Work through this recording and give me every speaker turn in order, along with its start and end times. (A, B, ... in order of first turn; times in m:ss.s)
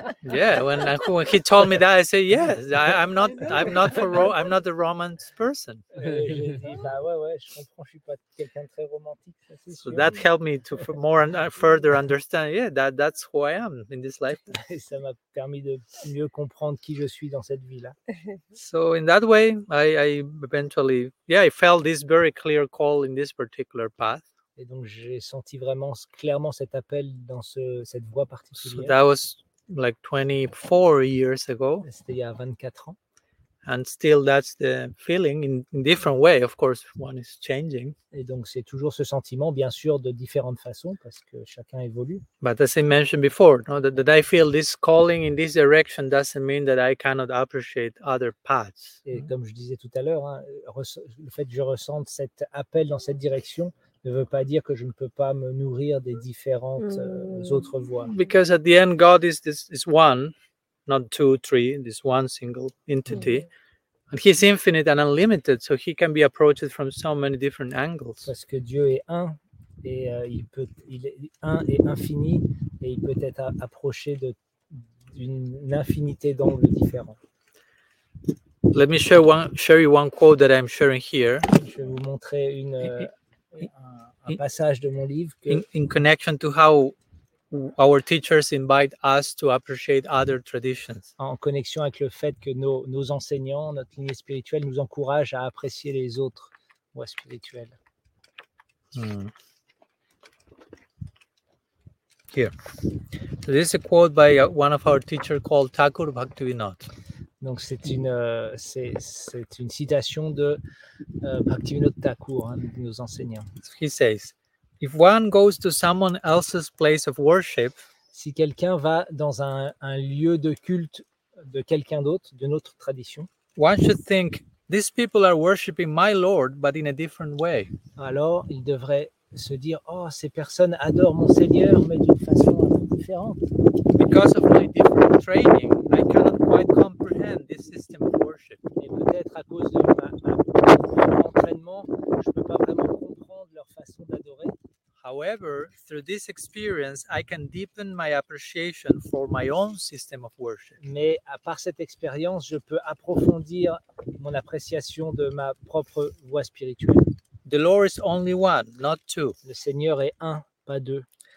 0:00.2-0:05.9 A
0:05.9-0:10.2 B
0:09.7-0:14.5 A
0:14.4-0:18.0 B
0:18.6-0:24.2 A
0:24.6-0:29.0 B
0:28.6-0:31.9 A
0:31.8-0:33.0 B
0:33.6-0:38.0 A
0:38.1-0:42.2 B
0:42.4-0:49.0 A
0:49.0-0:58.1 B
0:58.0-1:00.3 A
1:00.9-1:03.5 A
1:04.1-1:08.3 A
1:08.2-1:17.2 B
1:18.7-1:21.5 A
1:21.5-1:25.6 B
1:25.5-1:26.9 A
1:27.5-1:31.1 A
1:31.2-1:37.8 B
1:38.9-1:39.3 A
1:43.3-1:46.9 A
1:47.4-1:50.6 B
1:51.2-1:53.5 B
1:53.6-1:57.8 A
1:58.1-2:03.3 B
2:03.6-2:07.7 A
2:08.0-2:13.5 B
2:13.9-2:18.6 A
2:18.8-2:24.6 B
2:25.0-2:30.8 A
2:30.8-2:37.1 B
2:37.4-2:39.4 A
2:39.4-2:41.1 B